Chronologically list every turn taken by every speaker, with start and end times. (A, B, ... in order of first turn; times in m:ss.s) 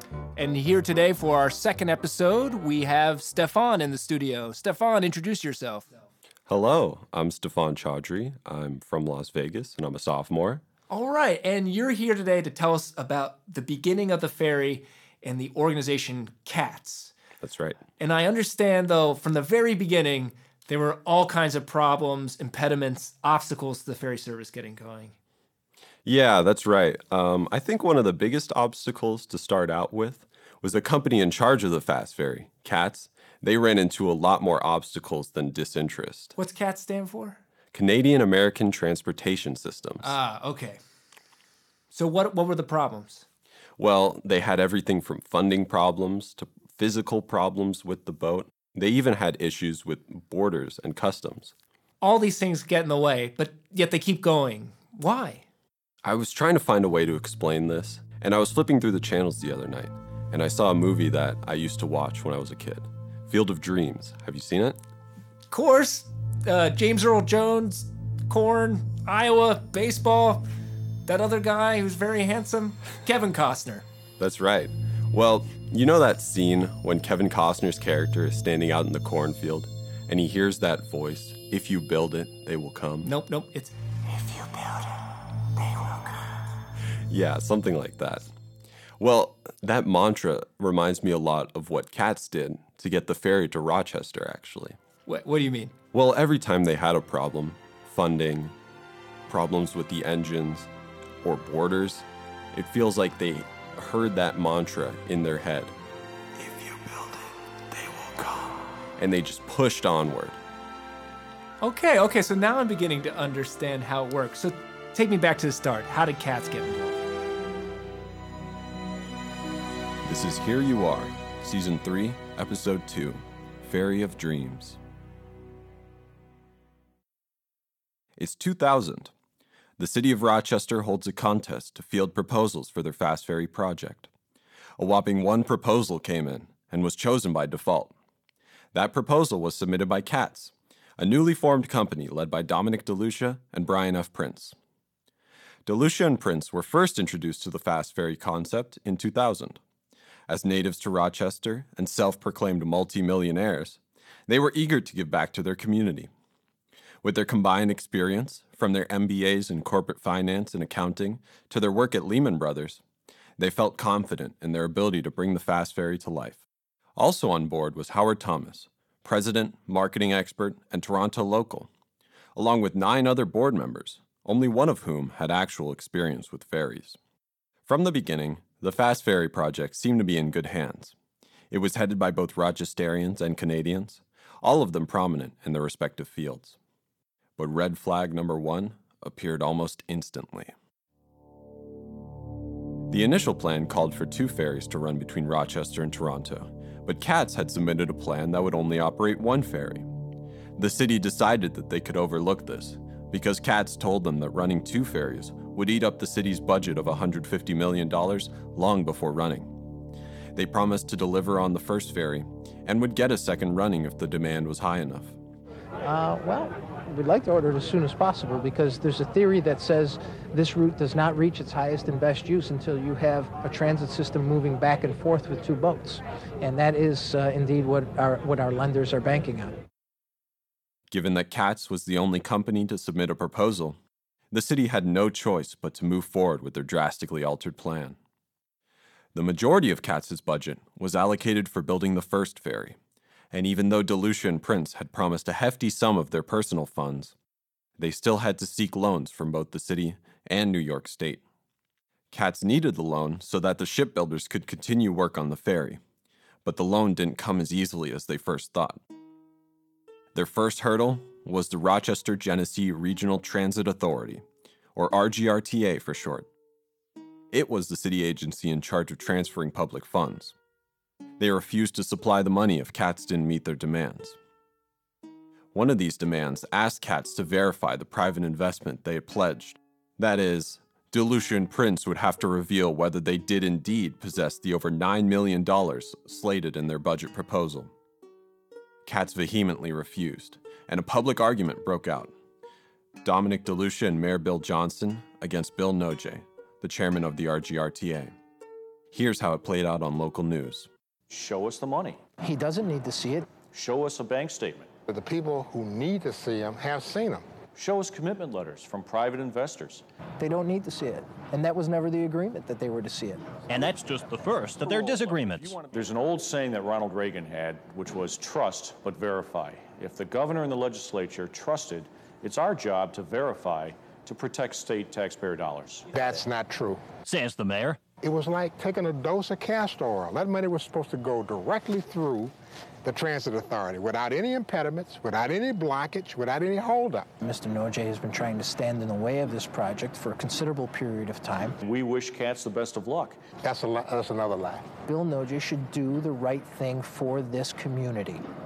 0:00.4-0:05.9 A
0:06.5-0:10.6 B
0:10.9-0:17.1 A
0:17.4-0:17.8 B
0:18.0-0:25.1 A
0:26.0-0:36.3 B
0:36.4-0:37.4 A
0:37.7-0:40.1 B
0:40.0-0:40.8 A
0:41.9-0:43.2 A
0:43.8-0:51.5 B
0:52.0-0:55.4 A
0:56.0-1:04.8 B
1:05.5-1:10.4 A
1:11.0-1:13.8 A
1:14.2-1:23.1 B
1:23.0-1:24.9 A
1:25.6-1:26.0 A
1:27.1-1:28.3 B
1:29.0-1:34.8 B
1:35.0-1:35.7 A
1:35.9-1:38.5 B
1:39.3-1:40.7 B
1:41.2-1:45.7 B
1:46.4-1:50.4 B
1:51.6-1:57.0 A
2:00.0-2:04.8 B
2:08.2-2:09.1 B
2:09.8-2:14.1 B
2:14.8-2:17.9 B
2:18.7-2:24.6 B
2:25.6-2:29.6 B
2:30.3-2:36.1 B
2:37.0-2:42.8 B
2:43.4-2:46.4 B
2:47.0-2:51.7 B
2:52.4-2:57.0 B
2:57.6-3:00.9 B
3:01.5-3:06.6 B
3:07.4-3:10.5 B
3:12.9-3:19.9 B
3:20.6-3:29.7 B
3:30.3-3:35.2 B
3:35.8-3:49.6 C
3:50.9-3:53.8 B
3:54.3-3:58.0 B
3:59.1-4:02.8 B
4:03.3-4:07.1 B
4:07.8-4:11.2 B
4:12.1-4:15.8 B
4:16.4-4:18.8 B
4:20.1-4:24.2 B
4:24.8-4:26.3 B
4:27.3-4:30.4 B
4:31.2-4:34.2 B
4:35.5-4:47.7 B
4:48.8-4:52.1 B
4:53.0-4:58.1 B
4:58.9-5:00.7 B
5:01.1-5:02.0 D
5:02.2-5:03.2 C
5:03.5-5:04.7 D
5:04.9-5:07.2 E
5:07.5-5:09.8 D
5:10.2-5:13.3 C
5:13.5-5:15.5 F
5:13.7-5:25.9 D
5:25.9-5:26.8 E
5:27.0-5:27.8 F
5:28.0-5:32.3 E
5:32.8-5:37.1 E
5:37.2-5:41.6 C
5:41.6-5:43.2 D
5:43.4-5:44.7 E
5:44.9-5:48.2 C